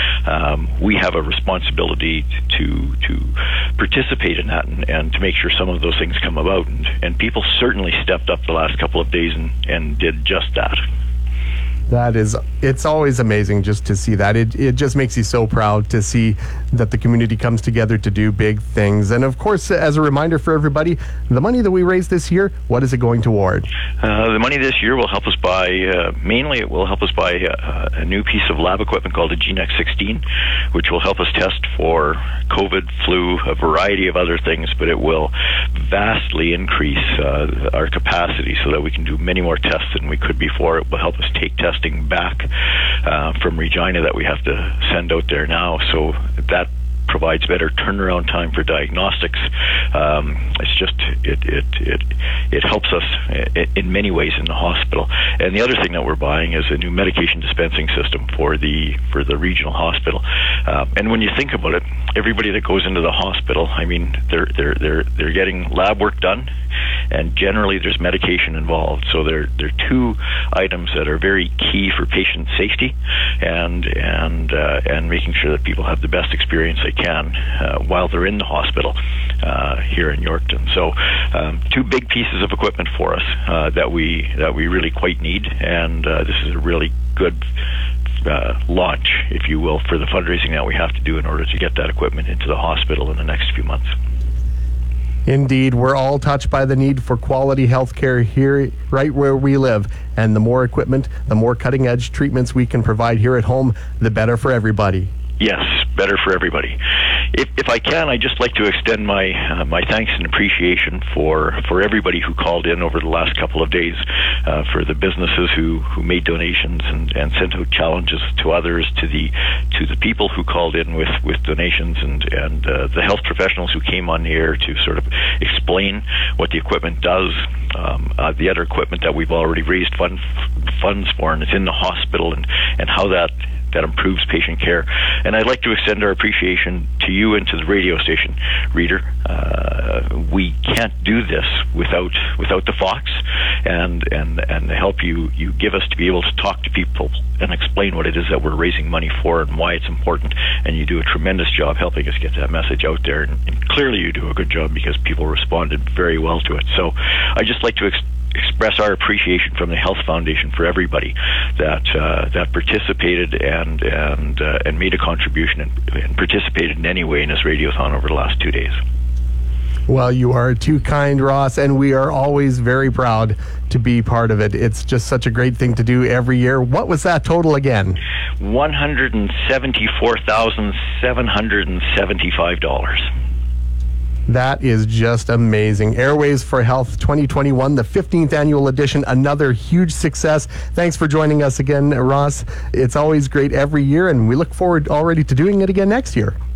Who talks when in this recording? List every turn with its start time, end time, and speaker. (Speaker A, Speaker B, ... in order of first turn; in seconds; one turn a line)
Speaker A: 0.2-10.8
Speaker B: 11.9-23.7
Speaker A: 24.0-42.5
Speaker A: 43.0-66.5
Speaker A: 67.1-87.4
Speaker A: 88.2-93.9
Speaker B: 95.2-105.1
Speaker A: 105.4-106.8
Speaker A: 107.3-168.8
Speaker B: 169.9-178.0
Speaker A: 178.4-183.1
Speaker B: 184.3-196.3